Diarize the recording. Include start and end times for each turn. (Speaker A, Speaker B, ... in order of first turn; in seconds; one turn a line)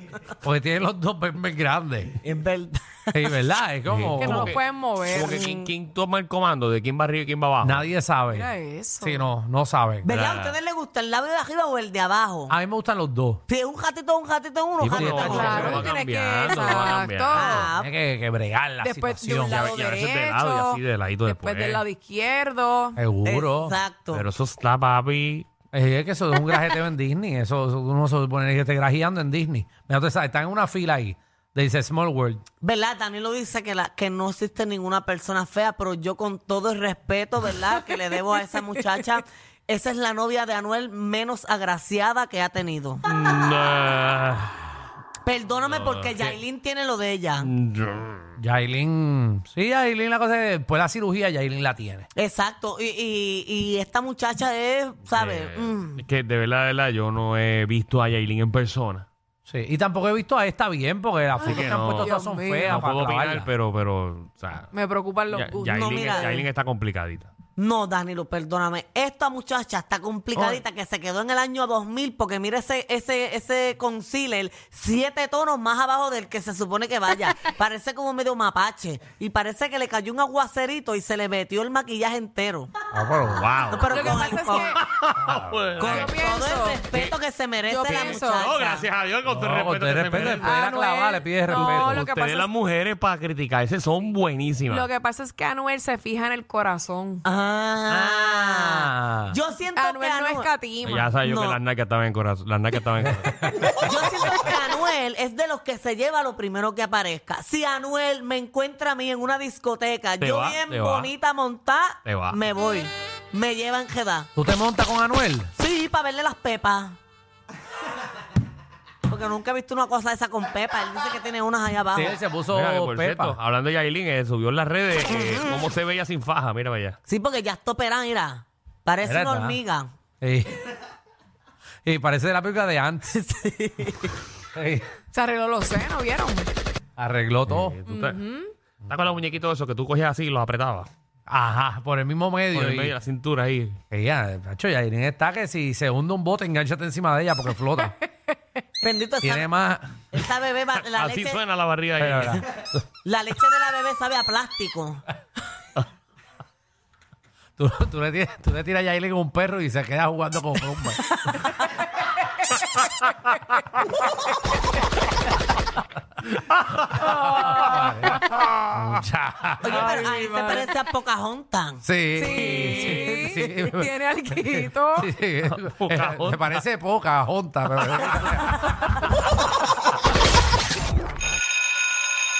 Speaker A: 0.4-2.2
Speaker B: 2.2-3.3
Speaker A: 3.1-4.6
Speaker C: 3.9-7.8
Speaker D: 4.2-5.4
Speaker A: 7.6-8.5
Speaker D: 8.3-9.3
Speaker A: 9.0-10.1
Speaker B: 10.0-12.5
Speaker C: 10.1-10.6
Speaker A: 12.5-13.4
Speaker B: 13.5-15.7
Speaker C: 14.8-17.7
Speaker A: 14.9-15.9
Speaker D: 15.3-17.6
Speaker B: 17.3-17.9
Speaker A: 17.7-19.7
Speaker D: 18.8-23.0
Speaker C: 19.5-21.8
Speaker A: 23.0-23.8
Speaker B: 23.2-24.2
Speaker C: 24.1-25.5
Speaker A: 25.7-32.4
Speaker B: 32.6-43.0
Speaker C: 43.0-44.8
Speaker B: 45.2-47.5
Speaker C: 45.6-46.4
Speaker C: 47.4-48.3
Speaker A: 48.4-52.0
Speaker B: 52.1-56.0
Speaker C: 55.1-59.0
Speaker A: 59.5-63.5
Speaker C: 61.4-62.1
Speaker D: 61.5-62.6
Speaker C: 62.7-64.7
Speaker D: 64.7-66.4
Speaker C: 65.3-67.3
Speaker B: 65.8-66.4
Speaker B: 67.6-82.7
Speaker A: 82.9-83.5
Speaker C: 83.3-86.1
Speaker B: 83.7-84.8
Speaker D: 83.9-84.8
Speaker B: 85.8-88.9
Speaker D: 85.8-86.8
Speaker D: 87.7-88.6
Speaker C: 87.8-90.6
Speaker A: 89.2-92.0
Speaker D: 90.3-92.5
Speaker C: 91.5-94.9
Speaker D: 94.7-97.2
Speaker B: 97.2-100.5
Speaker A: 97.9-99.3
Speaker D: 99.7-101.1
Speaker C: 100.8-103.4
Speaker B: 101.2-101.6
Speaker B: 103.8-114.3
Speaker C: 110.2-111.1
Speaker C: 112.0-112.4
Speaker A: 114.3-115.5
Speaker B: 115.5-117.0
Speaker B: 119.1-122.2
Speaker A: 121.9-123.4
Speaker C: 122.5-127.0
Speaker B: 125.1-125.7
Speaker B: 127.1-129.9
Speaker A: 129.0-129.6
Speaker A: 130.2-130.6
Speaker A: 131.8-133.2
Speaker B: 133.1-134.1
Speaker A: 134.5-134.9
Speaker D: 135.1-136.5
Speaker A: 137.0-137.8
Speaker C: 137.5-138.2
Speaker D: 137.9-138.5
Speaker C: 138.8-140.9
Speaker A: 141.3-142.9
Speaker C: 142.5-143.8
Speaker A: 143.9-147.9
Speaker B: 148.8-149.5
Speaker A: 149.2-149.9
Speaker B: 150.1-151.4
Speaker C: 150.8-152.5
Speaker A: 152.0-152.8
Speaker B: 153.0-155.0
Speaker A: 157.6-161.2
Speaker A: 166.9-170.1
Speaker B: 169.6-173.3
Speaker D: 169.8-170.7
Speaker A: 171.8-178.5
Speaker D: 172.1-175.1
Speaker C: 175.4-176.6